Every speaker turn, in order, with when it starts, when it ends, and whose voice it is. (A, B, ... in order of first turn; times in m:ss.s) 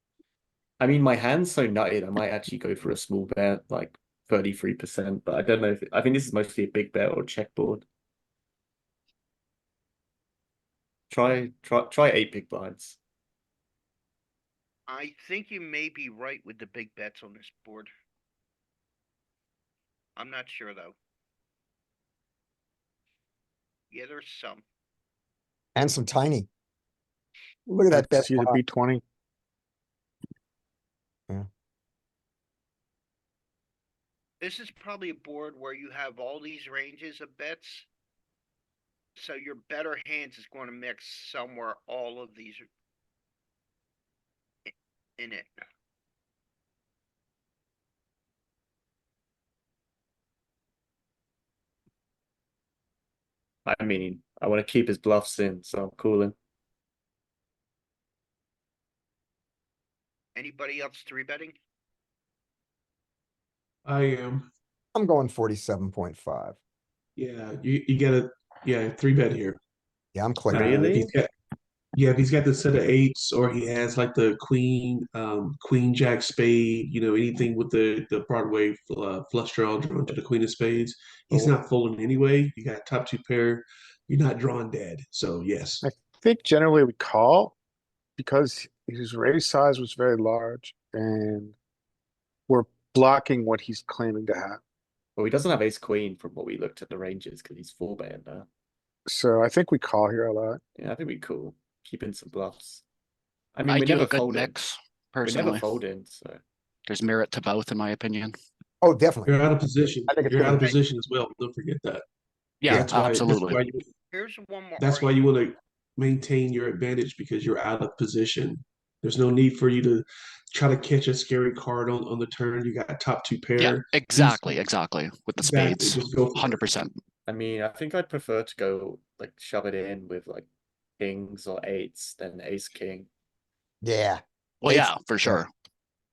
0:00.8-0:07.9 A
0:11.1-0:13.0 A
0:14.9-0:17.9 B
0:20.2-0:21.0 B
0:23.9-0:24.6 B
0:25.8-0:26.5 C
0:27.7-0:28.6 C
0:27.9-0:29.0 D
0:34.4-0:37.9 B
0:39.2-0:42.7 B
0:44.7-0:45.6 B
0:53.7-0:56.4 A
1:00.4-1:01.6 B
1:03.8-1:04.5 E
1:05.0-1:06.6 C
1:07.2-1:09.6 E
1:10.2-1:10.8 C
1:10.5-1:11.1 A
1:10.5-1:11.3 E
1:12.0-1:25.8 E
1:25.8-1:27.6 D
1:28.2-1:31.6 D
1:32.5-1:34.6 D
1:35.2-1:38.5 A
1:39.1-1:40.6 D
1:40.8-1:42.8 A
1:43.6-1:44.5 A
1:43.7-1:45.8 F
1:45.2-1:46.4 A
1:46.9-1:48.4 F
1:48.8-1:49.3 C
1:49.3-1:52.0 E
1:50.1-1:50.7 C
1:52.6-1:53.6 F
1:52.6-1:53.9 E
1:54.1-1:55.3 B
1:54.8-2:04.6 E
2:03.6-2:06.9 F
2:05.4-2:06.9 E
2:07.3-2:10.5 A
2:11.0-2:13.1 A
2:13.8-2:15.4 C
2:14.6-2:15.5 F